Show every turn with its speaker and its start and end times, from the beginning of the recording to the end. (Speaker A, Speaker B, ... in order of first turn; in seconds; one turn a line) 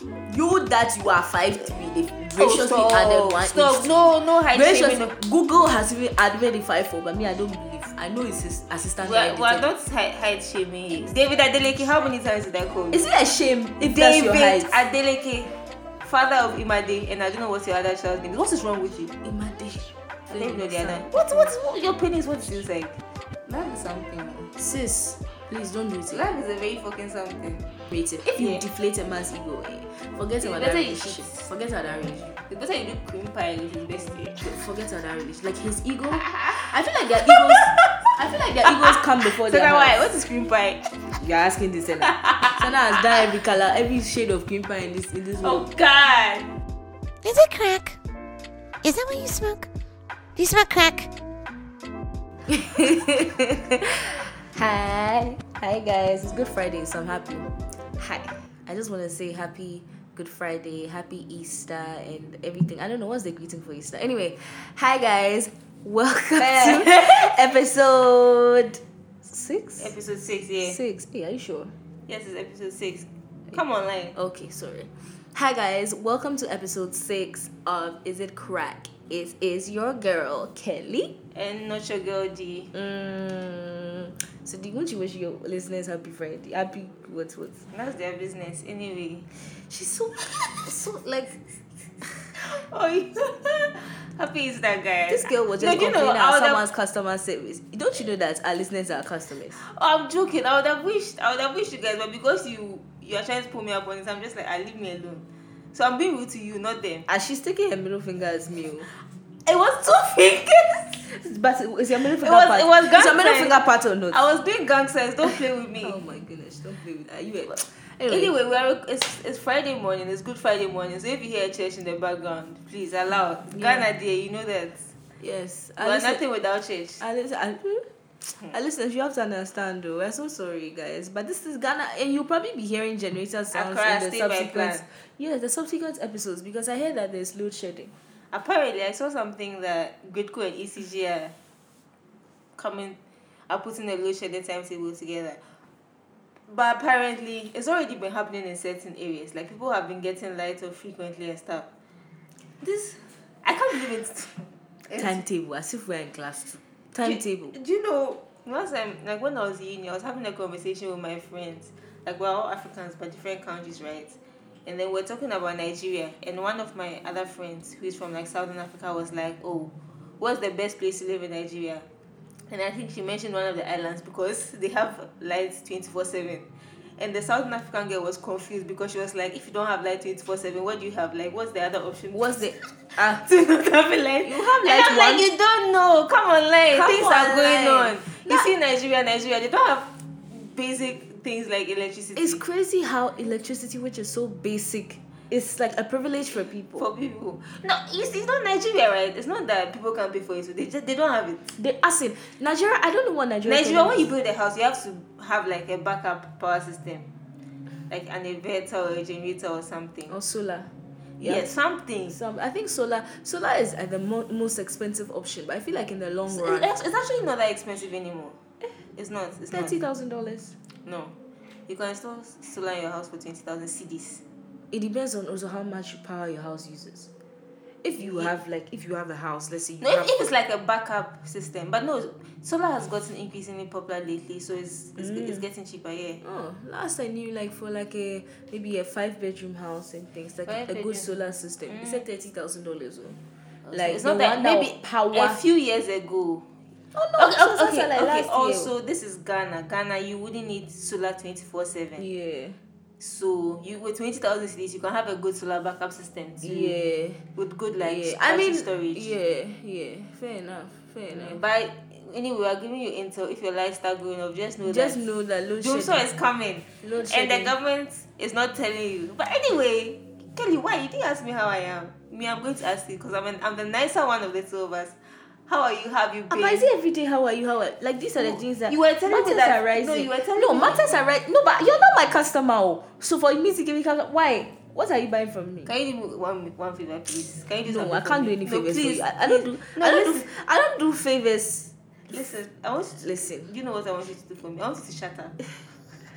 Speaker A: 0.3-9.7
Speaker B: 2.4-5.2
Speaker B: 9.0-13.1
Speaker A: 12.9-14.8
Speaker B: 13.8-19.1
Speaker A: 19.2-21.5
Speaker B: 20.3-24.5
Speaker A: 24.6-26.3
Speaker B: 26.1-27.7
Speaker A: 27.9-32.4
Speaker B: 28.3-28.7
Speaker B: 30.4-31.5
Speaker B: 32.5-34.4
Speaker A: 34.3-40.0
Speaker B: 36.2-36.7
Speaker B: 37.3-38.1
Speaker B: 38.6-40.8
Speaker A: 41.2-45.7
Speaker B: 42.0-43.3
Speaker B: 45.4-46.5
Speaker C: 47.2-48.0
Speaker C: 48.8-49.7
Speaker C: 50.4-51.1
Speaker A: 52.5-69.9
Speaker B: 66.4-67.3
Speaker B: 69.8-70.8
Speaker A: 70.6-71.7
Speaker B: 72.1-74.2
Speaker A: 74.2-81.2
Speaker B: 81.3-82.7
Speaker A: 82.7-87.6
Speaker B: 87.7-89.3
Speaker A: 89.7-91.4
Speaker B: 92.4-96.6
Speaker A: 95.1-99.6
Speaker B: 99.6-107.1
Speaker A: 107.1-108.9
Speaker B: 109.5-111.0
Speaker A: 111.1-114.3
Speaker B: 112.2-113.6
Speaker B: 114.1-116.0
Speaker A: 115.3-118.3
Speaker B: 118.1-124.9
Speaker A: 123.5-123.9
Speaker A: 125.2-126.2
Speaker B: 125.8-127.0
Speaker A: 127.0-127.9
Speaker A: 128.5-137.9
Speaker B: 133.5-134.8
Speaker B: 138.3-141.3
Speaker B: 142.6-145.4
Speaker B: 146.5-151.7
Speaker B: 152.6-155.2
Speaker A: 154.9-157.6
Speaker B: 157.0-171.9
Speaker B: 172.5-176.5
Speaker B: 177.0-182.4
Speaker A: 182.1-183.2
Speaker B: 183.0-192.4
Speaker A: 184.2-185.3
Speaker A: 186.7-188.5
Speaker A: 192.2-196.8
Speaker B: 196.8-201.5
Speaker A: 201.6-204.1
Speaker B: 203.5-207.1
Speaker B: 207.9-210.1
Speaker A: 210.1-211.6
Speaker B: 211.2-212.2
Speaker A: 212.1-216.7
Speaker B: 216.3-218.4
Speaker B: 219.0-219.8
Speaker A: 219.5-220.5
Speaker B: 220.8-221.2
Speaker B: 221.7-224.2
Speaker A: 224.7-227.1
Speaker A: 227.8-230.2
Speaker B: 228.0-228.3
Speaker B: 229.8-236.2
Speaker A: 235.0-235.4
Speaker A: 236.2-243.2
Speaker B: 240.5-241.1
Speaker B: 241.7-242.0
Speaker B: 243.7-246.5
Speaker A: 243.7-245.4
Speaker A: 246.9-248.7
Speaker B: 247.2-252.1
Speaker A: 252.0-252.6
Speaker B: 253.0-256.8
Speaker A: 256.4-257.2
Speaker B: 257.4-259.1
Speaker A: 257.8-261.4
Speaker B: 261.1-265.0
Speaker A: 264.6-266.1
Speaker B: 265.6-275.0
Speaker A: 266.8-267.5
Speaker B: 275.5-276.7
Speaker A: 276.3-285.7
Speaker B: 278.2-281.0
Speaker B: 285.7-290.3
Speaker A: 287.7-291.7
Speaker B: 292.1-295.4
Speaker A: 293.0-293.5